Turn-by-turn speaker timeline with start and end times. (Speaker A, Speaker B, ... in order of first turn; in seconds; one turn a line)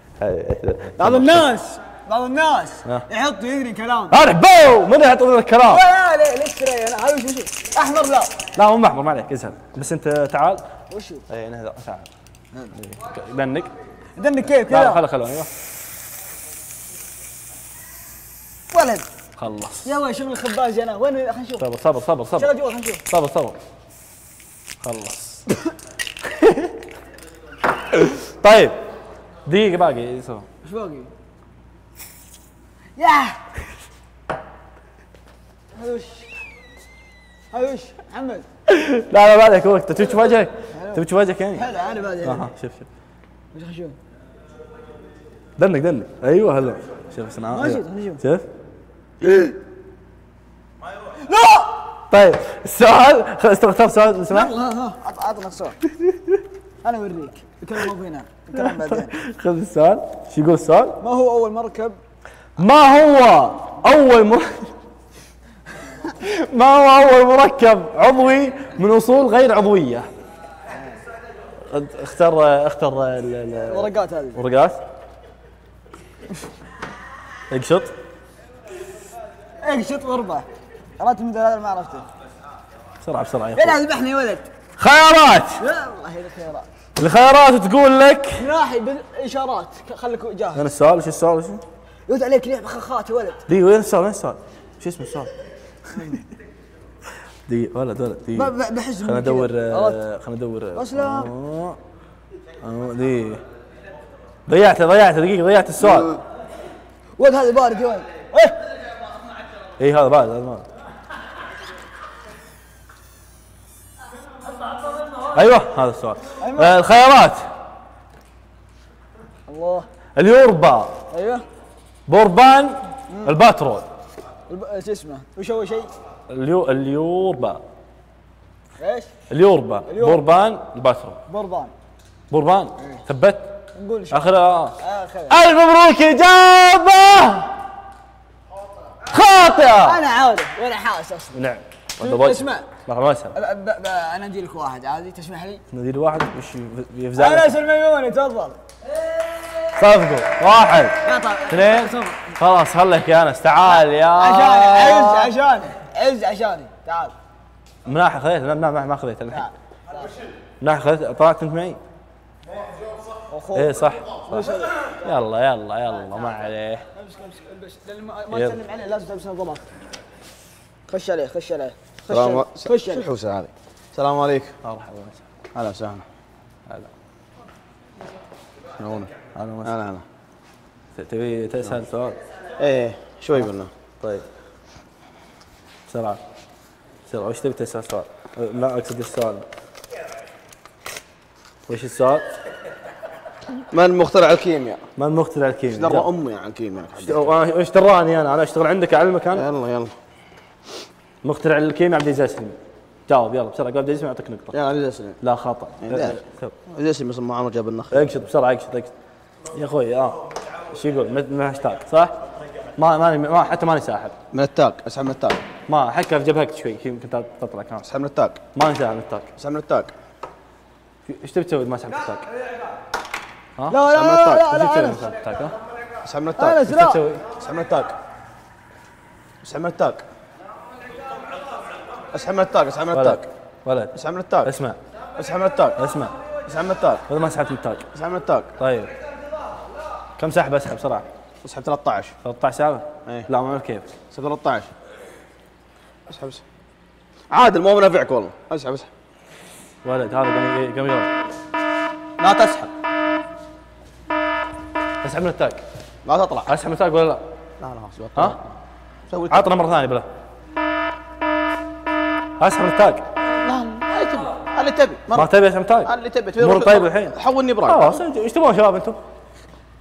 Speaker A: 0.2-1.5
Speaker B: 1.0-4.2
Speaker A: 4.1-5.8
Speaker B: 5.6-8.3
Speaker A: 8.4-10.7
Speaker B: 10.9-11.2
Speaker A: 11.3-12.1
Speaker A: 12.7-13.7
Speaker B: 14.2-15.0
Speaker A: 14.4-15.5
Speaker B: 18.7-19.1
Speaker A: 19.4-19.9
Speaker B: 19.8-21.6
Speaker A: 21.6-22.5
Speaker B: 22.3-23.0
Speaker A: 23.1-23.6
Speaker A: 24.8-25.5
Speaker A: 26.4-26.7
Speaker A: 27.9-28.7
Speaker A: 29.4-30.5
Speaker B: 30.6-31.1
Speaker B: 33.0-33.4
Speaker B: 35.7-36.3
Speaker B: 37.5-38.5
Speaker A: 38.7-41.7
Speaker B: 40.7-42.5
Speaker A: 42.2-42.9
Speaker B: 43.5-44.0
Speaker A: 45.6-48.5
Speaker B: 47.5-48.2
Speaker B: 51.1-51.8
Speaker A: 52.0-54.5
Speaker B: 54.3-55.8
Speaker A: 56.0-56.4
Speaker B: 56.8-59.1
Speaker A: 58.5-61.0
Speaker B: 61.0-62.0
Speaker A: 62.6-64.7
Speaker A: 66.0-70.1
Speaker A: 71.6-74.8
Speaker B: 73.6-74.4
Speaker A: 77.5-77.9
Speaker B: 79.6-80.5
Speaker B: 81.0-82.1
Speaker A: 83.0-83.8
Speaker B: 83.5-84.5
Speaker A: 84.8-85.6
Speaker B: 85.6-86.7
Speaker A: 87.0-88.5
Speaker B: 88.4-90.7
Speaker A: 90.5-91.6
Speaker B: 92.1-93.4
Speaker A: 93.5-95.3
Speaker A: 95.9-96.2
Speaker A: 97.5-101.8
Speaker B: 98.3-100.0
Speaker B: 100.7-101.3
Speaker A: 102.6-103.4
Speaker A: 104.5-106.2
Speaker B: 107.2-108.6
Speaker A: 109.8-110.6
Speaker A: 115.2-117.5
Speaker B: 116.4-116.8
Speaker B: 119.5-119.9
Speaker A: 120.2-121.0
Speaker B: 121.1-121.5
Speaker A: 122.1-123.9
Speaker B: 124.5-125.9
Speaker A: 126.3-127.6
Speaker B: 128.8-129.1
Speaker A: 129.3-131.2
Speaker B: 129.8-130.2
Speaker B: 131.3-131.7
Speaker A: 132.3-133.6
Speaker B: 133.8-135.4
Speaker A: 134.1-137.6
Speaker A: 139.1-140.0
Speaker B: 139.7-141.4
Speaker A: 141.3-143.3
Speaker B: 142.0-142.7
Speaker B: 143.3-145.6
Speaker A: 145.7-147.5
Speaker B: 147.2-148.6
Speaker A: 149.7-155.3
Speaker B: 151.0-152.4
Speaker B: 153.7-157.1
Speaker A: 157.8-159.5
Speaker A: 160.6-161.8
Speaker B: 163.3-164.9
Speaker A: 163.5-166.8
Speaker B: 166.9-169.7
Speaker A: 168.3-168.6
Speaker B: 170.9-173.0
Speaker C: 172.1-174.6
Speaker A: 174.6-175.2
Speaker C: 175.5-176.0
Speaker C: 178.8-179.1
Speaker A: 179.3-179.8
Speaker C: 179.6-180.0
Speaker A: 180.9-182.2
Speaker C: 182.6-183.7
Speaker A: 184.0-184.2
Speaker A: 185.9-186.2
Speaker A: 187.1-189.4
Speaker A: 191.7-192.3
Speaker C: 193.7-194.8
Speaker A: 194.9-196.1
Speaker C: 195.7-197.3
Speaker A: 197.0-199.5
Speaker C: 199.3-199.9
Speaker A: 201.2-202.6
Speaker A: 203.1-204.5
Speaker C: 204.5-205.2
Speaker A: 205.2-206.5
Speaker C: 205.8-208.2
Speaker A: 207.9-208.9
Speaker A: 209.5-210.2
Speaker A: 210.7-212.1
Speaker A: 212.8-214.2
Speaker C: 214.3-215.4
Speaker A: 215.7-217.8
Speaker C: 217.8-218.4
Speaker A: 218.5-219.3
Speaker C: 219.4-219.9
Speaker A: 221.1-222.2
Speaker A: 223.6-223.8
Speaker B: 223.7-225.1
Speaker C: 223.9-224.5
Speaker A: 224.4-225.6
Speaker C: 226.0-226.6
Speaker B: 226.3-227.0
Speaker A: 226.6-227.3
Speaker C: 227.3-227.9
Speaker C: 229.4-230.0
Speaker C: 232.1-233.2
Speaker A: 232.9-234.8
Speaker C: 233.9-234.5
Speaker C: 235.2-235.8
Speaker A: 235.8-236.1
Speaker C: 236.4-237.0
Speaker A: 237.1-237.9
Speaker C: 237.9-238.5
Speaker A: 238.6-238.9
Speaker A: 240.2-241.1
Speaker C: 241.4-242.2
Speaker A: 242.2-243.9
Speaker C: 244.1-244.7
Speaker C: 246.1-246.4
Speaker C: 247.3-248.9
Speaker A: 249.8-251.1
Speaker C: 252.2-252.7
Speaker A: 255.0-255.6
Speaker C: 256.0-256.5
Speaker A: 256.5-257.2
Speaker C: 257.6-258.4
Speaker C: 259.1-259.5
Speaker A: 259.3-260.1
Speaker A: 262.4-263.0
Speaker C: 263.4-265.3
Speaker A: 265.1-269.0
Speaker C: 265.8-268.0